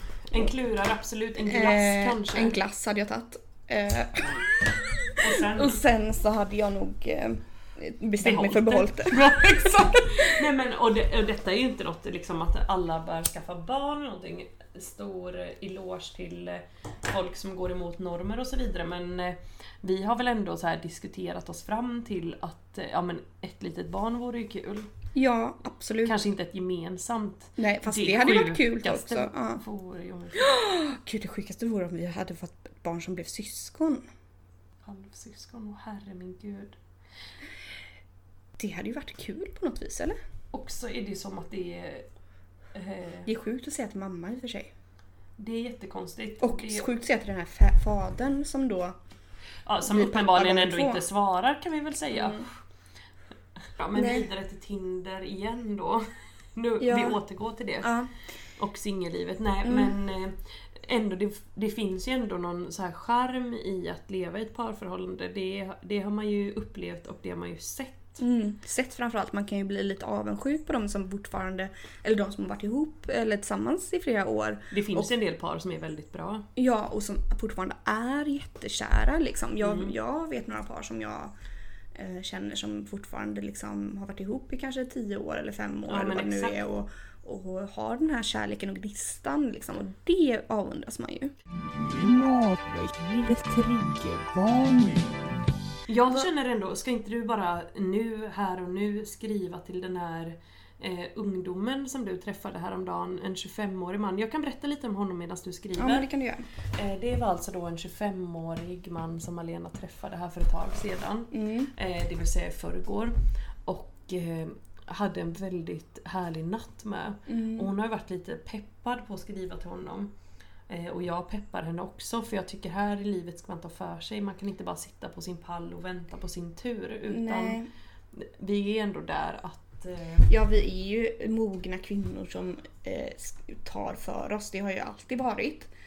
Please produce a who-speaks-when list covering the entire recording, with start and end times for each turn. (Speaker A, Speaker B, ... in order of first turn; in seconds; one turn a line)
Speaker A: 0.3-2.6
Speaker B: 1.4-10.4
Speaker A: 5.2-5.8
Speaker A: 8.2-24.9
Speaker B: 25.1-26.2
Speaker A: 26.0-30.5
Speaker B: 27.6-29.6
Speaker B: 30.4-34.0
Speaker A: 34.8-36.8
Speaker B: 38.6-40.1
Speaker A: 40.5-42.1
Speaker A: 42.7-43.3
Speaker B: 43.2-44.7
Speaker A: 45.4-46.9
Speaker B: 46.4-49.0
Speaker A: 49.6-52.5
Speaker B: 49.8-51.0
Speaker B: 52.1-52.5
Speaker A: 53.8-57.9
Speaker B: 54.0-54.2
Speaker B: 56.8-57.2
Speaker B: 57.8-58.1
Speaker A: 58.6-68.2
Speaker B: 59.6-59.9
Speaker B: 68.2-75.1
Speaker A: 74.7-76.5
Speaker B: 76.5-81.3
Speaker A: 79.6-79.9
Speaker B: 81.9-91.3
Speaker A: 85.9-86.6
Speaker C: 91.7-95.2
Speaker A: 95.9-106.1
Speaker B: 105.8-106.5
Speaker A: 106.7-120.1
Speaker B: 111.3-111.7
Speaker B: 117.3-117.7
Speaker A: 120.7-127.6
Speaker B: 127.1-127.7
Speaker A: 128.1-130.3
Speaker B: 130.3-135.7